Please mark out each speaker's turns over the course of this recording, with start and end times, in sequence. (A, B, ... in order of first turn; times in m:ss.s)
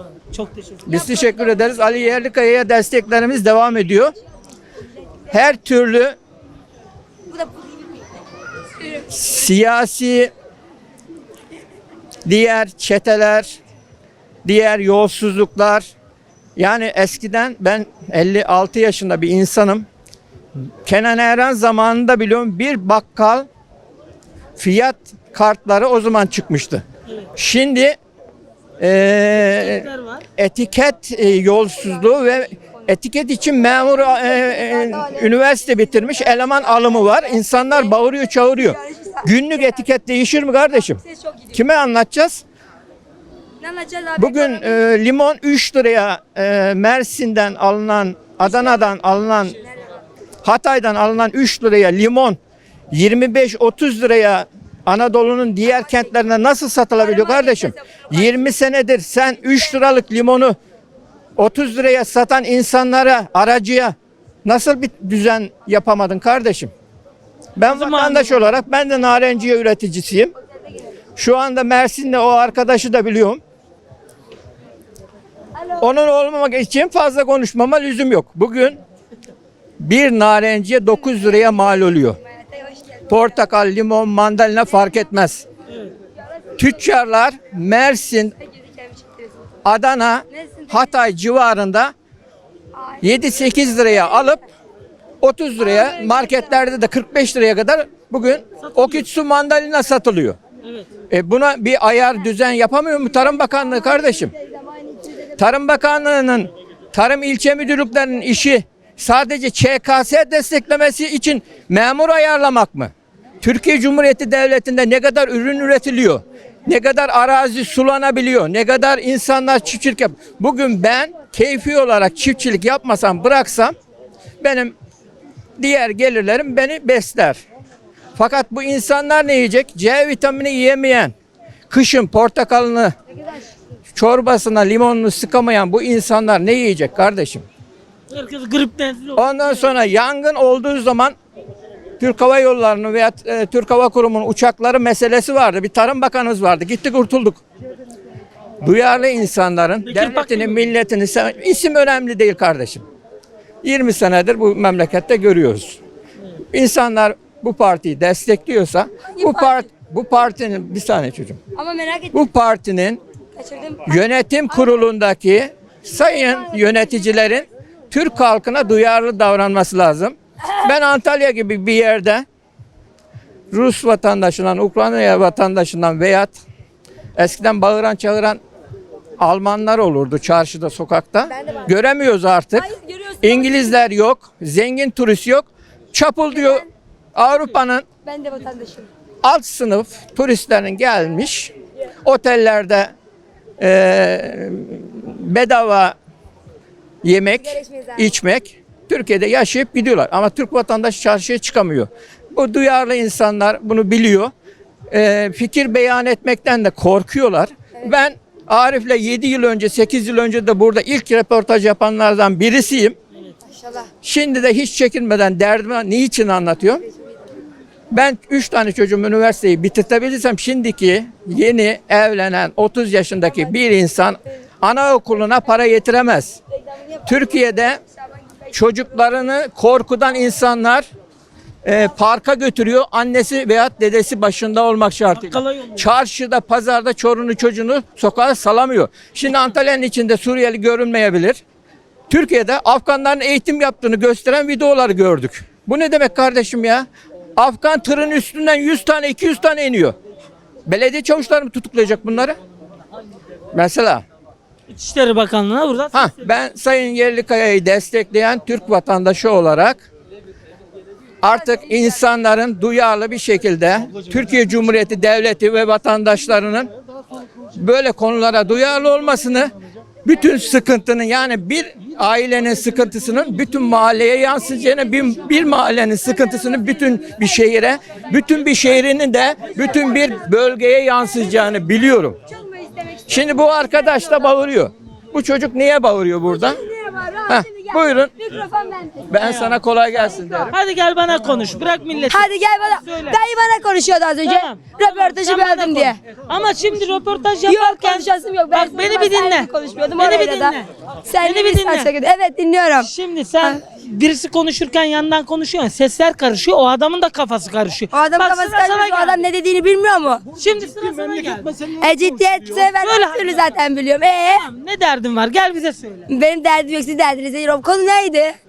0:00.3-0:00.8 A
0:00.8-0:04.1 B
0:01.0-0:01.4 C
0:05.3-0:06.2 B
0:07.3-0:07.7 C
0:09.1-0:10.3 B
0:12.2-0:13.6 B
0:14.4-0:15.9 B
0:16.6-0:19.8 B
0:20.8-0:23.4 B
0:24.6-0:26.8 B
0:27.4-0:28.0 B
0:28.8-0:41.0 B
0:29.6-0:30.2 A
0:34.2-0:35.2 C
0:38.6-0:39.8 C
0:41.5-0:42.4 B
0:43.6-0:44.7 C
0:44.2-0:49.6 B
0:50.4-0:52.4 B
0:52.9-1:00.5 B
0:57.3-0:57.7 C
1:01.4-1:06.7 B
1:07.6-1:10.3 B
1:07.7-1:08.4 A
1:11.2-1:13.4 B
1:15.8-1:18.8 B
1:19.8-1:22.2 B
1:22.5-1:23.0 C
1:23.1-1:25.4 B
1:26.6-1:28.4 B
1:28.6-1:29.2 C
1:29.6-1:31.9 B
1:30.4-1:30.8 C
1:33.0-1:34.4 B
1:35.2-1:40.4 B
1:38.6-1:39.0 A
1:40.6-1:40.9 A
1:41.1-1:44.3 B
1:44.2-1:45.3 C
1:45.4-2:03.7 B
2:04.4-2:04.7 B
2:05.6-2:07.4 B
2:08.2-2:11.1 B
2:11.7-2:12.9 B
2:13.9-2:17.4 B
2:18.1-2:19.4 A
2:19.1-2:21.1 B
2:22.0-2:27.4 B
2:28.6-2:32.8 B
2:29.9-2:30.6 A
2:33.6-2:35.8 B
2:36.5-2:41.4 B
2:39.1-2:39.6 C
2:41.5-2:42.2 C
2:42.1-2:43.0 B
2:43.4-2:44.0 C
2:43.8-2:52.2 B
2:46.0-2:46.8 C
2:53.5-2:56.3 B
2:57.2-2:58.4 B
2:59.2-3:02.7 B
3:01.4-3:01.7 C
3:02.6-3:03.7 C
3:03.2-3:07.8 B
3:06.4-3:06.6 C
3:08.0-3:08.9 C
3:09.2-3:11.5 B
3:12.0-3:12.9 B
3:13.6-3:15.9 B
3:17.0-3:24.3 B
3:17.4-3:18.1 C
3:24.9-3:33.0 B
3:33.6-3:33.9 C
3:34.0-3:36.8 B
3:37.9-3:46.4 B
3:47.0-3:47.8 B
3:48.5-3:50.8 B
3:51.6-4:01.4 B
3:55.1-3:55.9 A
4:02.1-4:10.0 B
4:10.6-4:12.4 B
4:13.5-4:14.0 B
4:14.7-4:16.2 A
4:15.9-4:19.9 B
4:21.2-4:26.7 B
4:27.6-4:29.5 B
4:30.0-4:42.2 B
4:42.3-4:44.2 C
4:43.1-4:46.6 B
4:46.3-4:49.2 C
4:47.3-4:48.2 B
4:49.1-4:50.6 B
4:49.2-4:49.6 A
4:50.2-4:50.5 C
4:50.5-4:53.2 A
4:52.1-4:56.0 C
4:54.2-5:00.6 A
4:57.5-5:02.9 C
5:01.2-5:01.9 A
5:02.8-5:09.2 A
5:07.9-5:10.2 C
5:10.3-5:11.8 A
5:11.7-5:14.4 C
5:12.4-5:13.5 A
5:14.3-5:16.1 A
5:16.1-5:18.4 C